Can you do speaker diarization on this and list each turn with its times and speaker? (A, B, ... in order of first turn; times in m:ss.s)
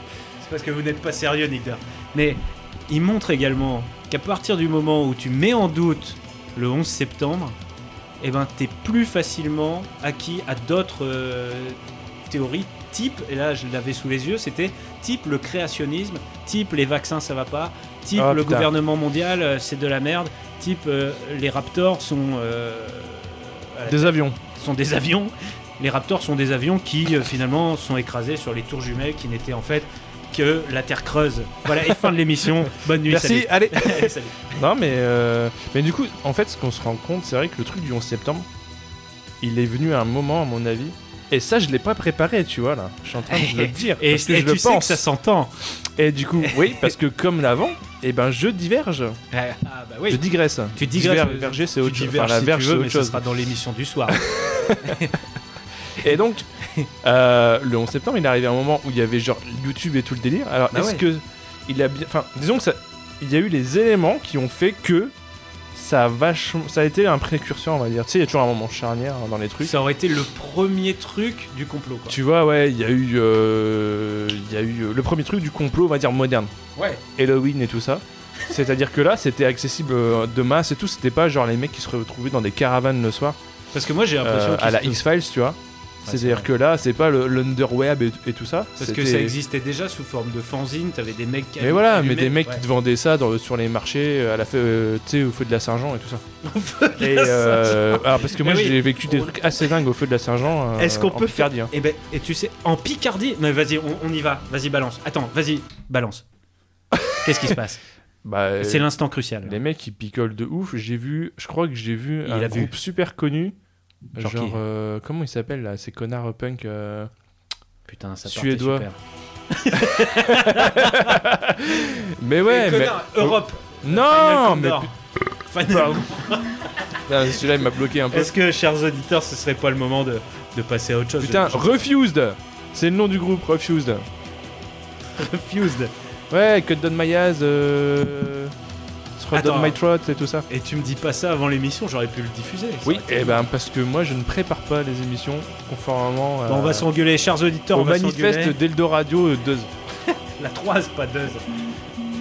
0:00.4-0:07.6 A
0:08.2-0:34.6 A
0:18.2-0:18.7 B
0:23.9-0:24.4 B
0:32.6-0:38.5 B
0:39.4-0:45.0 B
0:43.3-0:45.5 A
0:46.0-0:49.2 B
0:46.4-0:46.9 A
0:49.3-0:50.2 A
0:50.1-0:53.2 B
0:50.8-0:54.2 A
0:54.1-0:55.0 B
0:54.8-0:55.2 A
0:56.0-0:56.5 B
0:56.6-0:56.9 A
0:57.0-1:05.1 B
1:00.7-1:01.0 A
1:05.7-1:09.7 B
1:09.6-1:12.2 A
1:12.1-1:16.5 B
1:16.8-1:17.0 A
1:17.2-1:23.4 B
1:23.7-1:25.1 A
1:24.2-1:29.4 B
1:26.0-1:26.5 A
1:28.8-1:32.6 A
1:31.6-1:36.2 B
1:36.4-1:39.4 A
1:37.0-1:41.7 B
1:40.8-1:46.2 A
1:47.2-1:47.8 A
1:48.2-1:48.9 B
1:48.6-1:49.6 A
1:49.4-1:53.6 B
1:52.3-1:52.7 A
1:54.2-1:57.1 B
1:54.2-1:54.6 A
1:57.9-1:59.0 A
1:58.3-1:58.9 B
1:59.5-2:01.2 A
1:59.8-2:04.9 B
2:02.4-2:04.9 A
2:05.5-2:06.7 A
2:05.6-2:06.1 B
2:07.1-2:08.4 B
2:08.1-2:11.9 A
2:11.2-2:14.1 B
2:15.2-2:15.9 A
2:16.3-2:18.5 B
2:19.2-2:20.5 B
2:19.3-2:19.8 A
2:20.5-2:23.4 A
2:22.8-2:26.9 B
2:26.5-2:28.6 A
2:27.7-2:29.7 B
2:30.1-2:31.5 A